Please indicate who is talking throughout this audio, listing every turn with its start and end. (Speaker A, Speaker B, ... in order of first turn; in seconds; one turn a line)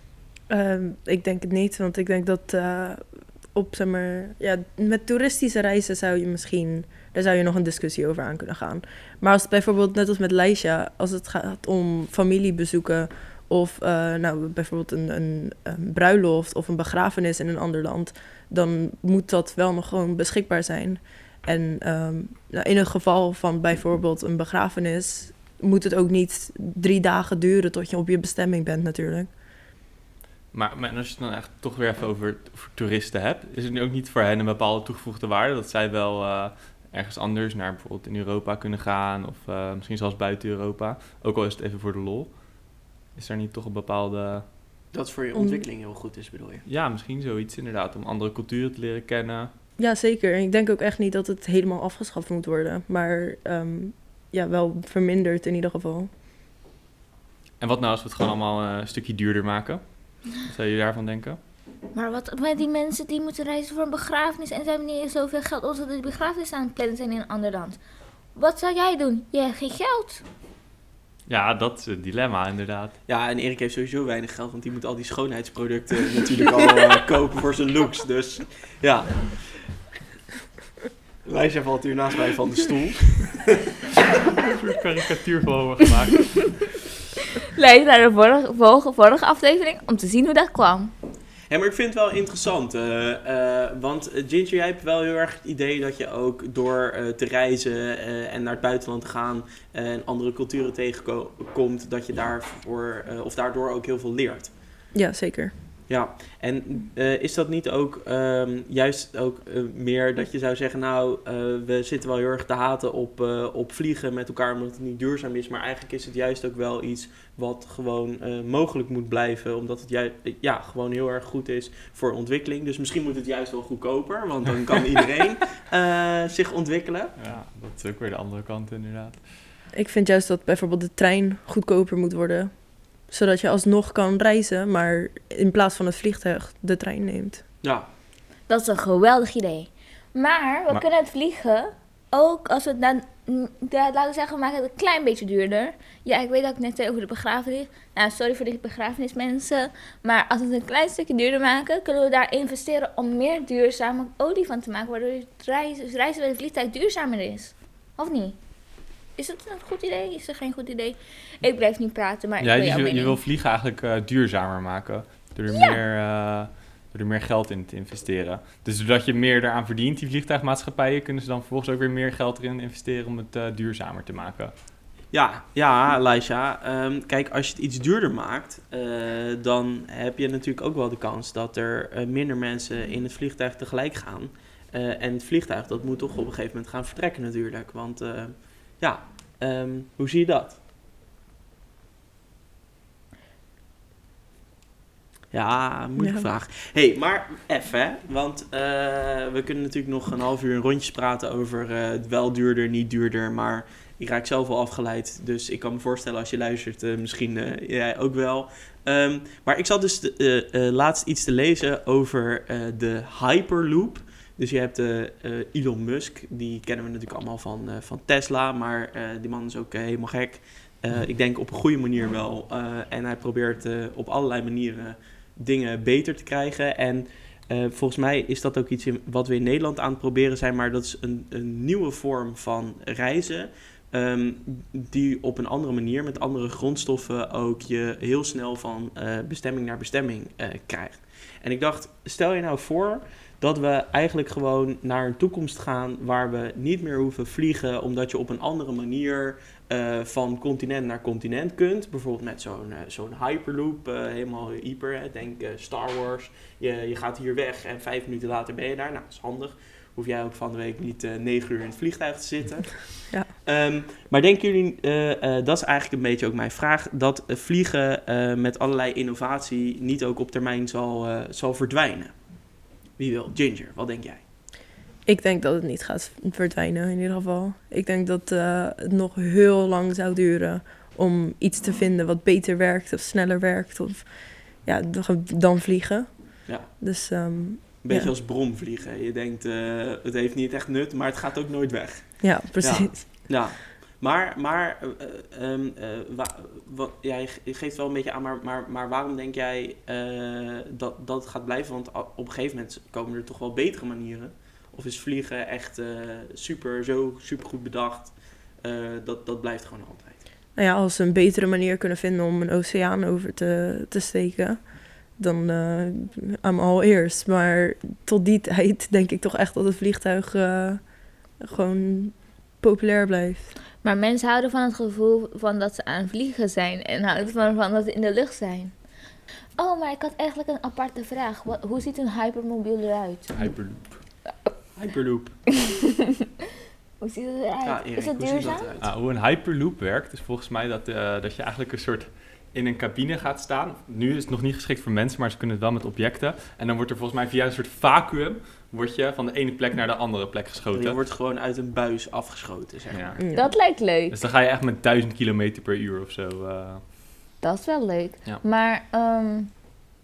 Speaker A: 0.5-29.4
Speaker B: 30.5-44.5
Speaker C: 44.9-46.6
Speaker A: 45.3-45.6
Speaker B: 46.6-49.5
Speaker A: 49.8-56.1
Speaker B: 57.6-61.4
Speaker D: 61.9-67.8
Speaker D: 68.3-70.2
Speaker B: 71.3-73.0
Speaker C: 73.1-79.6
Speaker C: 81.2-83.5
Speaker B: 84.4-86.6
Speaker D: 87.5-90.9
Speaker C: 91.5-104.5
Speaker A: 104.9-105.5
Speaker C: 105.9-127.1
Speaker B: 127.2-129.3
Speaker A: 129.7-137.4
Speaker C: 137.6-137.9
Speaker D: 138.5-158.4
Speaker D: 159.2-163.2
Speaker B: 162.4-174.5
Speaker D: 165.5-165.8
Speaker C: 175.1-190.6
Speaker C: 195.3-274.2
Speaker A: 196.0-196.3
Speaker A: 275.0-288.1
Speaker C: 286.5-286.7
Speaker C: 287.8-310.2
Speaker A: 292.2-293.4
Speaker A: 310.5-323.5
Speaker D: 323.8-328.8
Speaker D: 329.6-333.4
Speaker B: 333.3-334.0
Speaker C: 334.8-335.4
Speaker D: 335.5-336.1
Speaker D: 337.0-338.7
Speaker C: 337.6-338.9
Speaker B: 338.8-351.0
Speaker C: 350.7-353.2
Speaker B: 352.9-353.2
Speaker A: 353.2-353.6
Speaker D: 353.3-354.1
Speaker B: 354.1-356.9
Speaker D: 357.4-359.5